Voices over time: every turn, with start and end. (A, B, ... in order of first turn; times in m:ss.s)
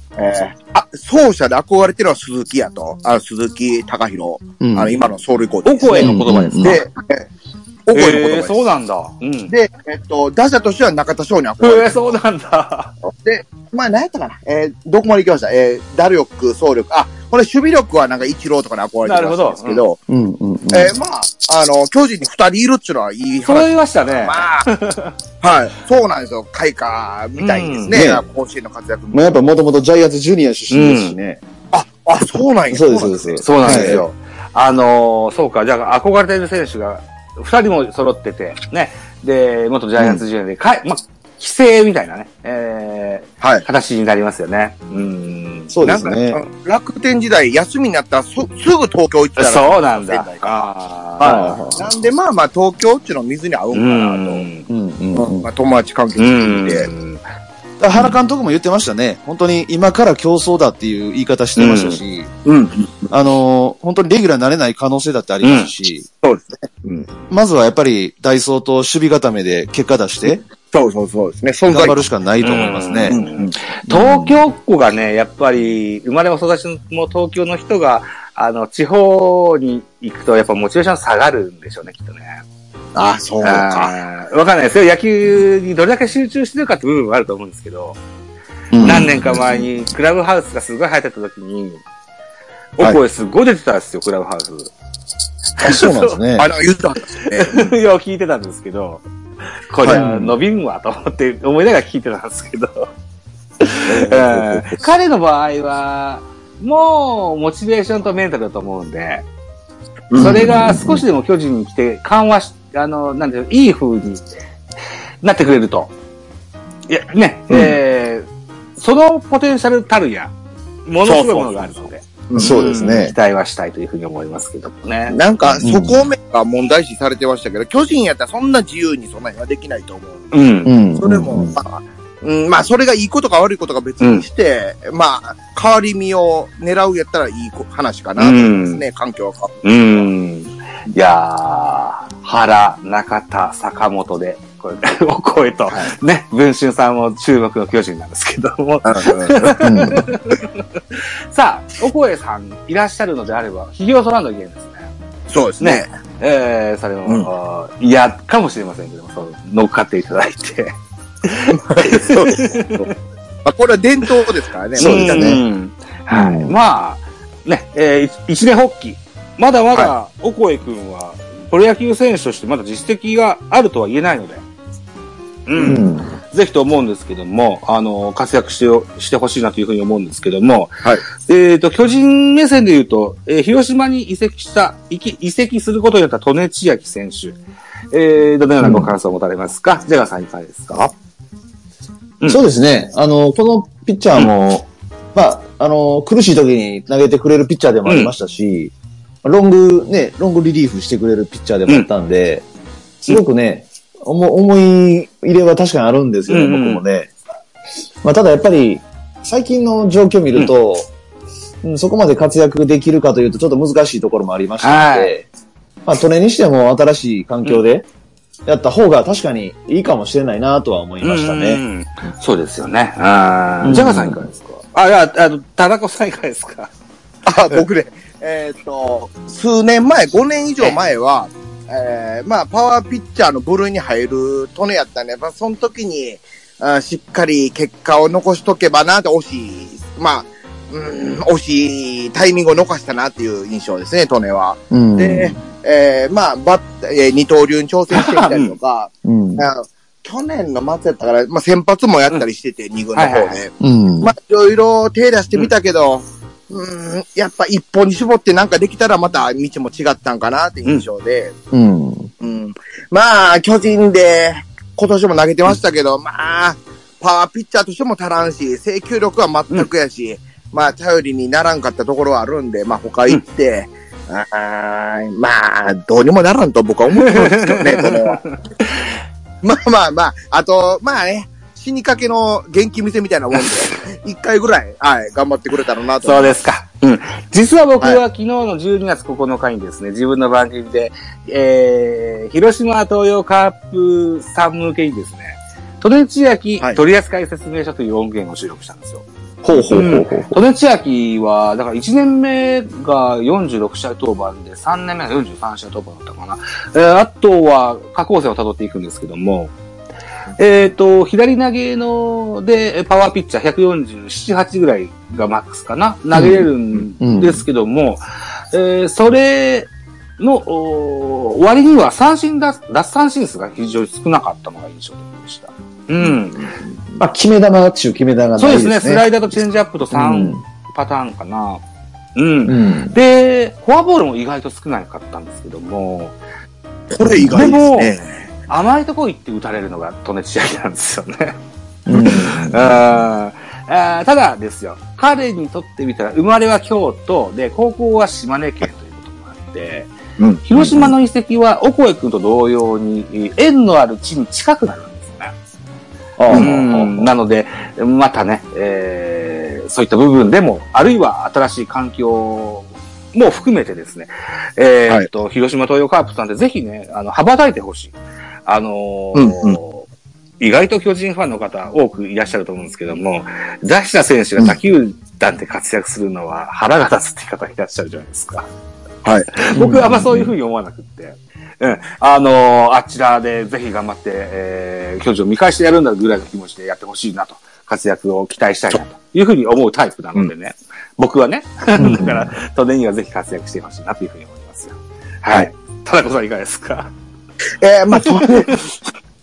0:00.2-0:07.3 A
0:04.6-0:04.9 B
0:05.6-0:06.8 C
0:05.9-0:06.8 B
0:07.9-0:08.7 A
0:07.9-0:09.5 C
0:09.5-0:12.1 A
0:11.6-0:12.9 C
0:13.0-0:20.0 A
0:19.0-0:19.8 C
0:20.1-0:20.9 B
0:20.7-0:24.7 A
0:23.4-0:25.1 C
0:25.4-0:29.4 A
0:27.4-0:28.0 C
0:27.9-0:28.2 B
0:29.1-0:31.4 B
0:30.7-0:31.2 C
0:31.7-0:34.0 A
0:32.7-0:34.0 B
0:33.4-0:45.7 C
0:43.4-0:43.6 A
0:45.7-0:46.4 B
0:45.8-0:50.6 A
0:49.4-0:51.6 C
0:51.2-0:54.5 A
0:51.2-0:51.9 B
0:53.7-0:54.7 C
0:54.7-0:55.5 B
0:55.1-0:56.9 A
0:56.2-0:57.2 C
0:57.8-1:02.3 B
1:01.6-1:02.0 C
1:02.4-1:03.1 A
1:03.1-1:06.1 B
1:05.4-1:05.7 C
1:06.2-1:07.1 A
1:07.3-1:10.4 B
1:10.7-1:12.0 A
1:11.7-1:13.2 B
1:12.4-1:22.4 C
1:13.1-1:13.6 A
1:13.9-1:14.4 B
1:22.9-1:23.9 A
1:23.4-1:28.0 C
1:28.7-1:29.2 B
1:28.8-1:31.8 C
1:32.8-1:34.7 C
1:35.6-1:36.2 C
1:35.6-1:36.5 B
1:36.4-1:37.7 A
1:37.3-1:39.0 C
1:39.7-1:42.9 C
1:39.8-1:40.4 B
1:43.6-1:49.2 C
1:43.8-1:44.8 A
1:50.1-1:50.7 A
1:50.2-1:54.2 C
1:50.2-1:51.0 B
1:55.2-1:55.9 C
1:56.9-2:00.3 C
2:00.8-2:05.2 C
2:01.0-2:02.6 A
2:02.3-2:03.1 B
2:05.1-2:10.3 A
2:05.6-2:06.0 B
2:10.3-2:10.7 C
2:10.6-2:11.6 B
2:11.0-2:19.6 A
2:14.0-2:14.2 C
2:18.2-2:18.8 C
2:19.6-2:34.9 C
2:28.8-2:30.0 A
2:29.6-2:30.1 B
2:35.3-2:35.9 A
2:35.6-2:42.9 C
2:41.5-2:42.9 A
2:43.4-2:45.4 A
2:44.8-2:54.4 C
2:44.8-2:45.4 B
2:46.1-2:46.5 B
2:55.5-3:07.4 C
2:55.5-2:55.9 A
2:55.6-2:56.1 B
3:07.9-3:10.9 C
3:08.6-3:08.9 B
3:12.2-3:18.7 B
3:17.8-3:18.1 C
3:19.2-3:22.4 B
3:23.0-3:27.1 B
3:26.3-3:26.8 C
3:28.0-3:30.9 B
3:31.6-3:35.3 B
3:34.6-3:35.1 C
3:35.8-3:37.8 B
3:38.4-3:41.6 B
3:41.0-3:46.7 C
3:43.6-3:44.2 B
3:47.2-4:21.3 A
4:04.7-4:05.4 B
4:07.9-4:08.5 C
4:09.0-4:09.4 B
4:12.9-4:13.4 C
4:13.6-4:14.1 B
4:21.5-4:22.1 B
4:22.2-4:38.2 A
4:36.9-4:38.9 C
4:39.4-4:46.3 A
4:43.3-4:43.8 C
4:46.0-4:59.0 C
4:59.4-5:00.4 B
4:59.7-5:09.5 C
5:10.4-5:26.6 C
5:16.1-5:16.5 B
5:17.0-5:17.4 B
5:26.0-5:26.5 A
5:27.0-5:29.1 B
5:28.4-5:31.6 C
5:29.9-5:30.4 B
5:32.1-5:36.2 C
5:32.4-5:33.0 B
5:36.9-5:38.3 A
5:37.3-5:37.9 C
5:38.5-5:41.4 C
5:41.9-5:42.7 B
5:42.0-5:49.9 C
5:42.0-5:42.4 A
5:50.2-5:50.4 A
5:50.4-5:55.3 C
5:50.6-5:50.9 B
5:56.2-5:57.1 B
5:56.3-6:09.9 C
6:09.1-6:09.6 A
6:10.4-6:18.5 C
6:19.0-6:19.3 A
6:19.3-6:36.9 C
6:19.5-6:20.3 B
6:31.8-6:32.3 B
6:37.6-6:38.8 A
6:38.0-6:38.6 C